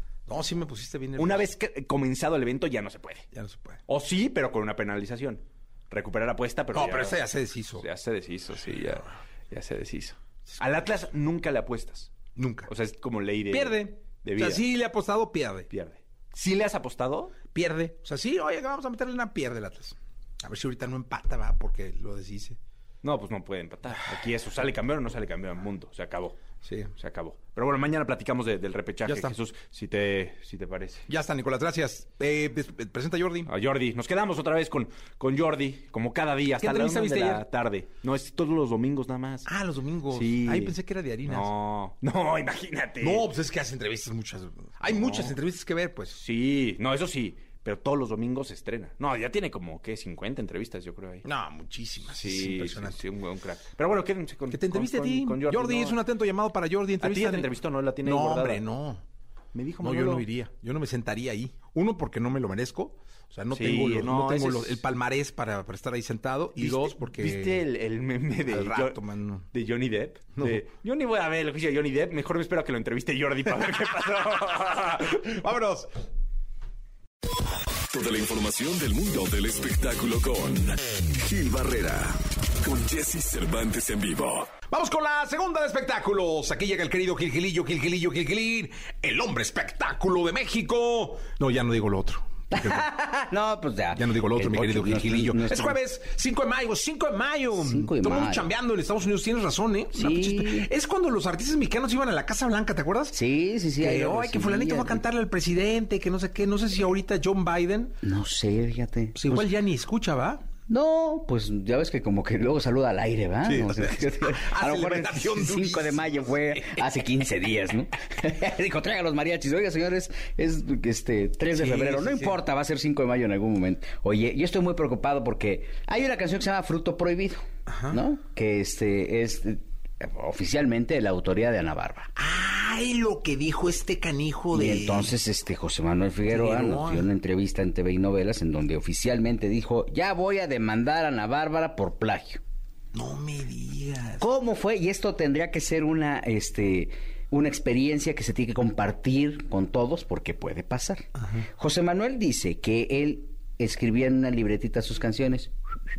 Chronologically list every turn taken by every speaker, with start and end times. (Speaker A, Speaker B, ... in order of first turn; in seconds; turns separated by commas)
Speaker A: 0.3-1.5, Speaker B: 1.2-3.2, Speaker A: 3.3-3.8, Speaker B: 3.9-7.2, Speaker A: 6.7-7.8, Speaker B: 7.8-12.1, Speaker A: 12.3-12.7, Speaker B: 12.7-14.6, Speaker A: 13.5-15.7, Speaker B: 15.7-17.4, Speaker A: 17.5-22.6, Speaker B: 23.0-31.0, Speaker A: 26.6-26.9, Speaker A: 29.1-29.3, Speaker A: 31.1-33.5, Speaker B: 33.5-39.5, Speaker A: 36.6-37.4, Speaker A: 39.5-41.5, Speaker B: 40.1-43.3, Speaker A: 43.0-46.2, Speaker B: 44.9-45.4, Speaker B: 46.1-51.2, Speaker A: 51.2-53.0, Speaker B: 52.1-56.0, Speaker A: 54.5-57.5, Speaker B: 57.0-58.6, Speaker A: 58.0-59.0, Speaker B: 59.5-60.3, Speaker A: 59.8-67.6, Speaker B: 63.5-64.8, Speaker B: 66.5-69.0, Speaker A: 68.5-69.5, Speaker B: 69.5-75.2, Speaker A: 70.3-70.7, Speaker A: 75.2-75.9, Speaker C: 77.9-84.5, Speaker A: 84.7-92.9, Speaker D: 92.5-95.8, Speaker A: 93.9-103.1, Speaker D: 97.5-98.5, Speaker D: 99.9-100.7, Speaker D: 103.1-105.0, Speaker A: 103.8-108.0, Speaker D: 108.0-109.5, Speaker A: 109.2-110.5, Speaker D: 110.7-132.1, Speaker A: 113.4-116.8, Speaker A: 121.5-122.4, Speaker A: 127.7-128.0, Speaker A: 132.2-135.1, Speaker D: 134.5-142.4, Speaker A: 136.3-137.1, Speaker A: 142.9-144.2, Speaker D: 144.2-155.5